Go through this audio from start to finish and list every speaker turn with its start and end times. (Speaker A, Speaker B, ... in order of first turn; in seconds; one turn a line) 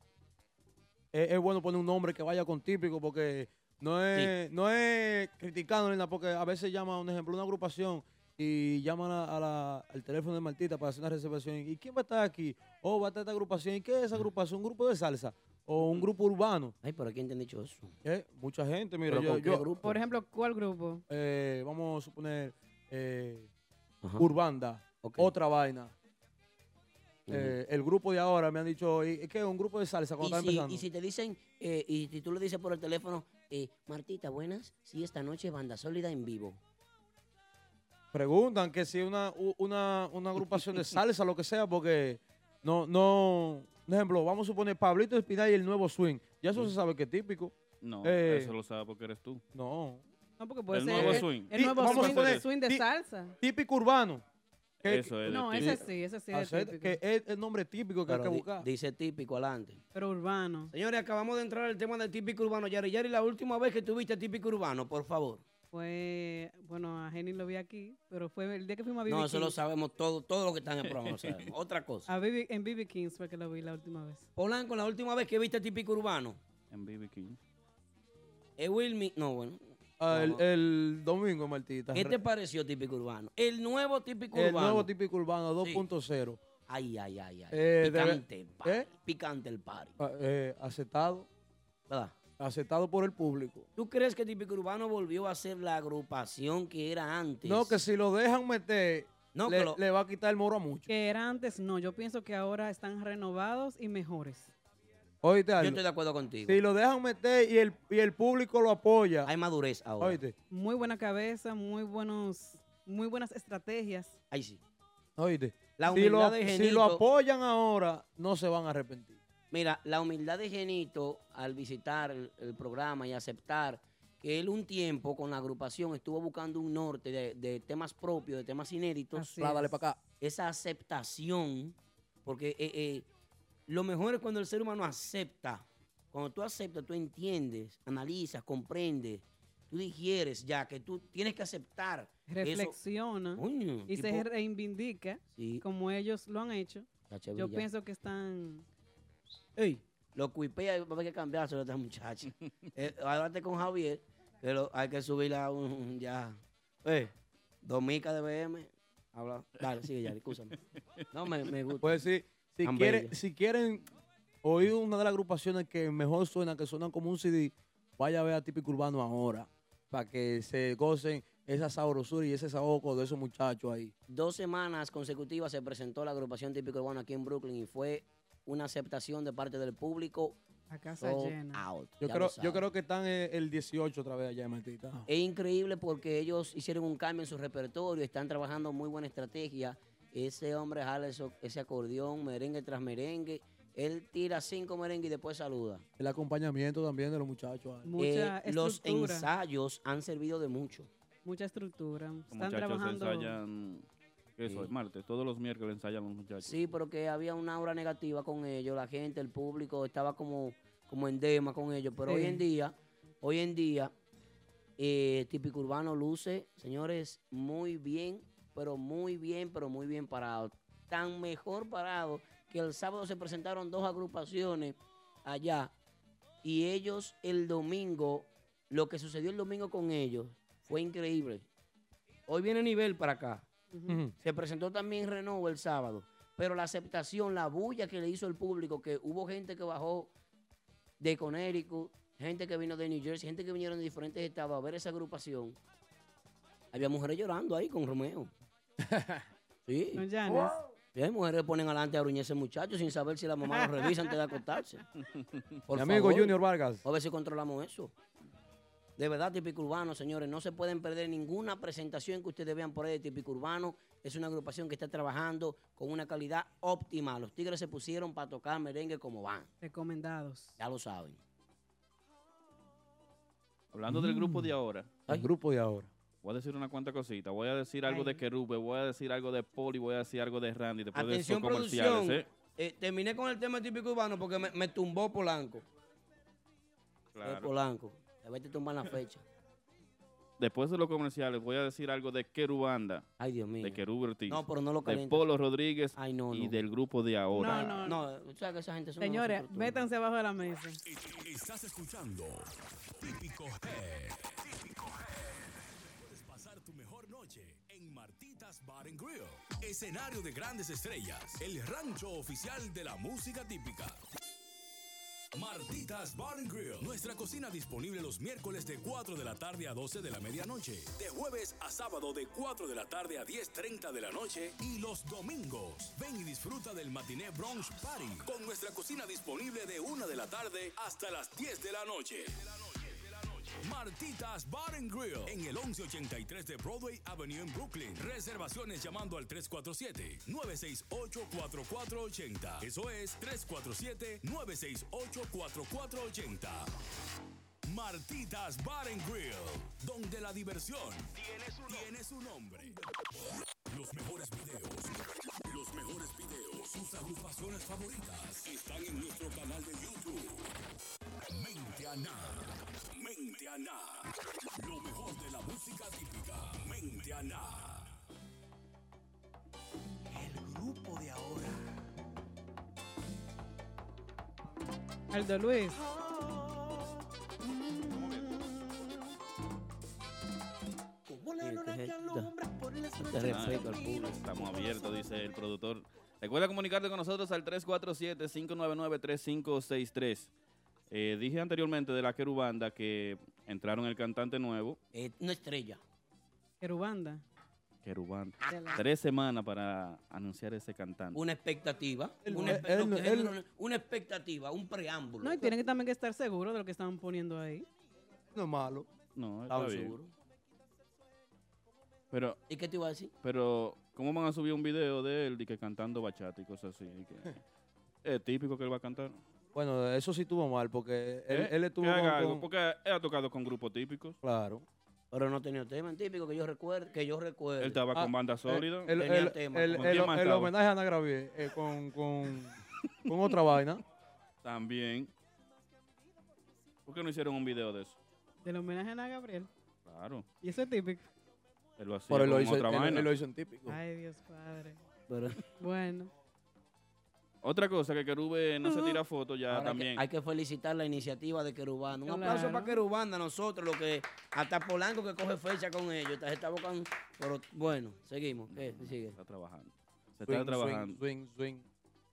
Speaker A: 1.1-16.8
Speaker B: 16.8-17.9
Speaker A: 18.0-19.7
Speaker B: 19.1-20.0
Speaker C: 19.8-21.0
Speaker A: 21.1-23.5
Speaker B: 24.0-24.3
Speaker A: 24.2-25.9
Speaker B: 25.0-25.3
Speaker B: 27.3-27.6
Speaker A: 27.3-30.9
Speaker B: 30.2-36.6
Speaker A: 38.1-48.5
Speaker D: 47.8-49.4
Speaker A: 49.5-50.0
Speaker C: 50.4-53.3
Speaker D: 50.7-52.5
Speaker A: 50.9-52.9
Speaker A: 53.4-54.2
Speaker A: 54.8-58.7
Speaker D: 54.9-55.8
Speaker C: 55.3-57.0
Speaker B: 58.1-59.8
Speaker C: 59.9-60.7
Speaker B: 60.7-65.4
Speaker C: 65.7-69.6
Speaker B: 69.1-72.1
Speaker D: 70.8-71.5
Speaker C: 72.1-74.3
Speaker B: 74.4-76.4
Speaker D: 76.7-77.4
Speaker B: 78.6-80.4
Speaker A: 80.0-82.2
Speaker B: 81.9-84.9
Speaker A: 84.3-86.4
Speaker B: 86.7-90.0
Speaker A: 87.5-88.9
Speaker A: 90.0-91.3
Speaker B: 91.9-92.2
Speaker A: 92.4-93.7
Speaker B: 93.8-97.8
Speaker A: 97.4-100.9
Speaker B: 99.3-99.8
Speaker C: 100.9-104.5
Speaker A: 105.2-105.8
Speaker B: 105.6-106.6
Speaker A: 106.5-109.3
Speaker B: 109.2-110.2
Speaker A: 110.0-110.3
Speaker C: 110.5-114.2
Speaker B: 114.3-114.6
Speaker A: 115.2-119.2
Speaker B: 115.8-117.0
Speaker B: 119.5-133.1
Speaker C: 129.2-129.8
Speaker A: 129.4-130.0
Speaker B: 133.7-142.8
Speaker C: 142.3-148.7
Speaker B: 143.3-144.3
Speaker B: 145.3-145.6
Speaker B: 147.1-147.7
Speaker B: 149.6-160.6
Speaker B: 161.1-161.9
Speaker A: 161.8-163.9
Speaker B: 162.7-163.1
Speaker A: 164.4-173.9
Speaker B: 174.1-180.4
Speaker C: 180.7-181.6
Speaker B: 181.0-182.6
Speaker A: 182.0-185.1
Speaker B: 185.1-195.8
Speaker A: 196.0-198.0
Speaker C: 197.8-199.3
Speaker B: 198.0-200.9
Speaker C: 201.2-203.4
Speaker D: 202.3-203.9
Speaker D: 204.4-206.6
Speaker B: 206.4-213.9
Speaker C: 212.1-212.4
Speaker B: 214.8-225.7
Speaker B: 226.4-231.5
Speaker B: 232.3-233.5
Speaker C: 233.7-234.0
Speaker A: 233.9-234.1
Speaker B: 234.2-240.1
Speaker B: 241.0-245.6
Speaker B: 246.7-248.3
Speaker A: 248.8-249.3
Speaker B: 249.7-254.8
Speaker C: 249.9-250.5
Speaker B: 255.7-257.9
Speaker A: 255.7-256.8
Speaker B: 259.0-269.5
Speaker C: 269.6-270.6
Speaker B: 270.6-271.2
Speaker D: 273.7-274.9
Speaker A: 273.9-274.4
Speaker A: 275.1-275.9
Speaker D: 276.2-282.3
Speaker C: 277.9-278.2
Speaker B: 280.9-285.7
Speaker D: 287.1-287.5
Speaker B: 287.2-289.2
Speaker D: 290.4-293.1
Speaker B: 293.2-295.2
Speaker D: 293.6-297.8
Speaker B: 296.0-296.6
Speaker C: 297.4-298.0
Speaker B: 297.4-299.9
Speaker C: 299.0-300.8
Speaker E: 300.9-314.0
Speaker E: 315.3-332.9
Speaker E: 333.4-346.7
Speaker E: 347.7-352.9
Speaker E: 353.7-360.4
Speaker E: 361.3-367.9
Speaker C: 375.1-375.8
Speaker C: 377.5-378.9
Speaker B: 381.4-382.3
Speaker C: 382.4-382.6
Speaker B: 383.0-384.2
Speaker D: 383.2-390.3
Speaker D: 390.9-394.8
Speaker B: 394.9-395.8
Speaker C: 396.6-397.2
Speaker D: 397.8-401.2
Speaker C: 398.5-398.8
Speaker B: 401.1-405.5
Speaker A: 402.2-403.4
Speaker C: 402.3-402.6
Speaker C: 405.2-407.7
Speaker A: 408.3-408.9
Speaker D: 409.2-410.0
Speaker B: 409.5-410.1
Speaker D: 412.1-412.4
Speaker B: 412.5-413.1
Speaker D: 413.2-417.4
Speaker D: 418.1-419.2
Speaker A: 419.5-422.5
Speaker D: 421.3-424.2
Speaker A: 424.2-424.7
Speaker B: 425.1-427.8
Speaker D: 427.6-429.0
Speaker A: 427.9-433.8
Speaker B: 428.9-430.1
Speaker D: 429.7-430.5
Speaker D: 434.4-435.1
Speaker D: 436.9-438.0
Speaker C: 438.4-439.5
Speaker D: 439.9-440.3
Speaker C: 440.4-441.1
Speaker D: 441.8-443.1
Speaker A: 442.1-443.8
Speaker C: 443.7-444.8
Speaker B: 445.1-445.4
Speaker C: 445.6-446.1
Speaker D: 447.4-450.0
Speaker C: 448.7-449.0
Speaker B: 449.5-459.2
Speaker C: 452.1-452.8
Speaker D: 458.5-461.0
Speaker A: 460.3-461.6